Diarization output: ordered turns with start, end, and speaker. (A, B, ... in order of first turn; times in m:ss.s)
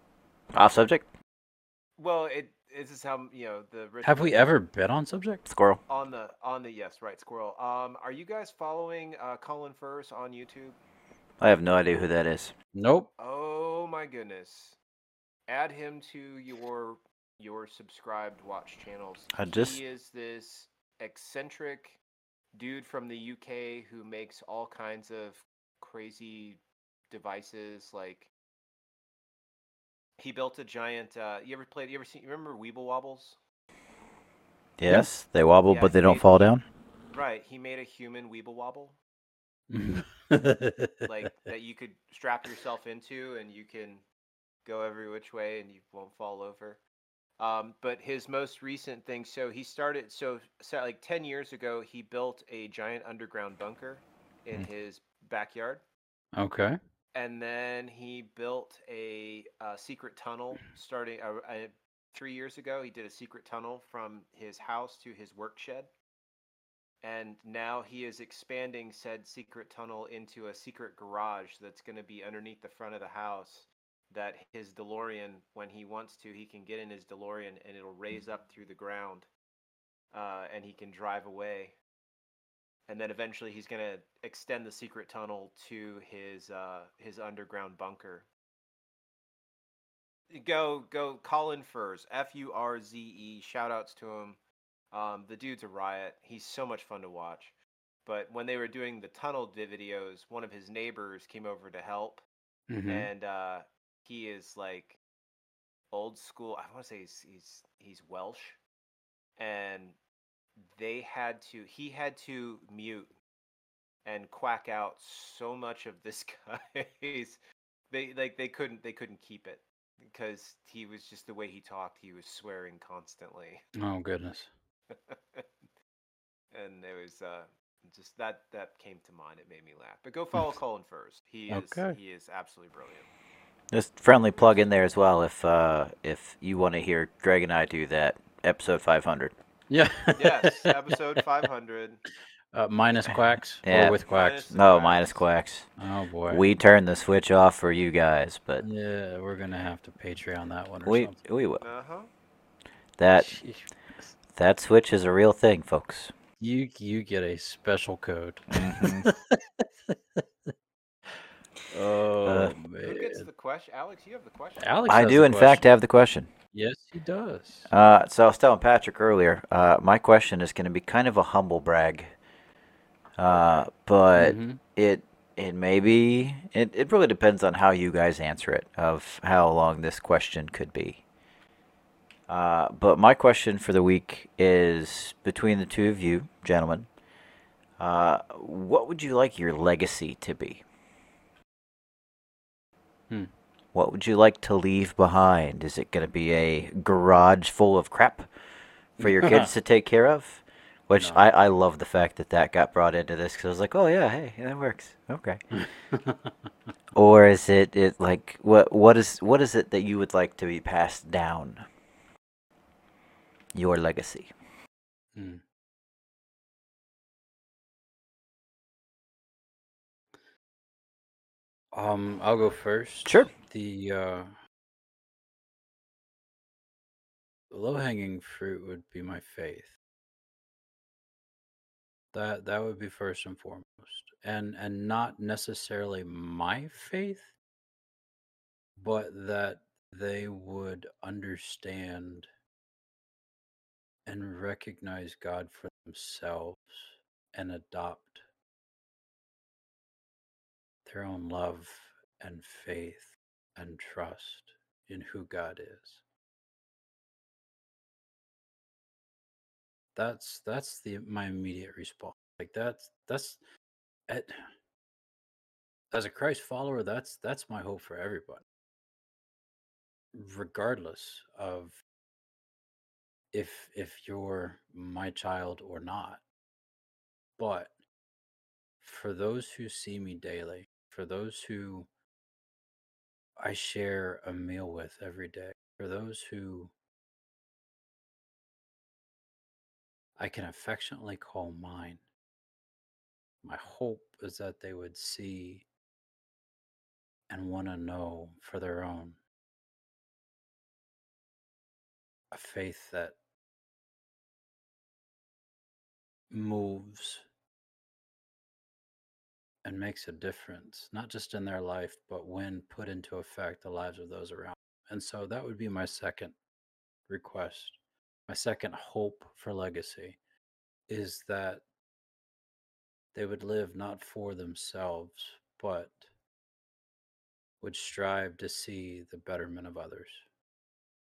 0:00.5-0:01.1 A
0:02.0-0:04.6 B
0:04.0-0:05.4 C
0:05.5-0:05.8 A
0:05.9-0:10.8 B
0:11.4-0:12.5 A
0:12.8-0:13.1 C
0:13.2-0:14.8 B
0:15.5-0:22.0 B
0:19.3-0:19.8 A
0:22.5-0:28.3 B
0:30.2-0:33.4 B
0:34.8-0:36.6 A
0:35.7-0:36.5 B
0:37.1-0:39.0 B
0:39.7-0:41.1 C
0:41.1-0:44.0 B
0:44.6-0:46.8 B
0:47.4-0:55.8 B
0:56.4-0:56.8 C
0:57.1-1:05.9 B
1:07.0-1:19.3 B
1:20.1-1:21.8 B
1:22.9-1:28.3 B
1:30.3-1:34.4 B
1:34.9-1:42.2 B
1:42.7-1:43.1 C
1:42.9-1:45.0 B
1:45.9-1:48.6 B
1:49.4-1:50.0 B
1:50.6-1:53.1 B
1:54.0-2:03.6 B
2:03.8-2:04.5 C
2:04.9-2:05.7 B
2:06.5-2:13.1 B
2:11.5-2:12.0 C
2:13.7-2:19.3 A
2:14.4-2:14.7 B
2:19.7-2:20.9 C
2:20.2-2:22.0 B
2:22.5-2:24.5 C
2:23.1-2:24.0 A
2:23.8-2:25.3 B
2:24.5-2:25.7 A
2:25.8-2:26.4 C
2:26.3-2:28.6 A
2:28.6-2:31.2 C
2:30.8-2:31.6 A
2:31.6-2:32.1 B
2:33.0-2:33.3 A
2:33.2-2:34.1 C
2:34.3-2:36.1 A
2:36.4-2:40.5 C
2:38.5-2:39.1 A
2:41.7-2:43.3 C
2:42.2-2:42.5 A
2:42.8-2:44.8 B
2:44.6-2:45.7 C
2:44.9-2:46.3 A
2:46.5-2:47.7 C
2:47.7-2:52.1 A
2:53.2-3:01.0 A
2:53.3-2:53.7 B
2:54.2-2:54.6 C
3:02.3-3:06.9 A
3:07.8-3:10.6 A
3:13.7-3:18.3 A
3:19.0-3:19.5 C
3:19.0-3:25.4 A
3:21.0-3:21.2 C
3:25.5-3:26.5 C
3:27.0-3:31.6 A
3:33.5-3:34.3 A
3:35.2-3:35.4 C
3:41.7-3:44.3 C
3:43.1-3:43.3 A
3:47.5-3:49.8 C
3:52.1-3:57.4 C
3:58.8-4:02.3 C
4:04.0-4:08.2 C
4:10.8-4:16.0 C
4:20.0-4:23.4 C
4:24.1-4:24.4 C
4:25.9-4:28.4 C
4:30.1-4:31.8 C
4:33.3-4:36.2 C
4:37.4-4:37.7 C
4:38.8-4:41.9 C
4:43.4-4:46.7 C
4:50.2-4:52.0 C
4:53.4-4:55.7 C
4:57.3-4:59.2 C
5:02.3-5:03.2 C
5:06.3-5:07.2 C
5:09.6-5:16.4 C
5:17.1-5:20.2 C
5:20.9-5:21.6 C
5:23.1-5:26.1 C
5:27.6-5:30.2 C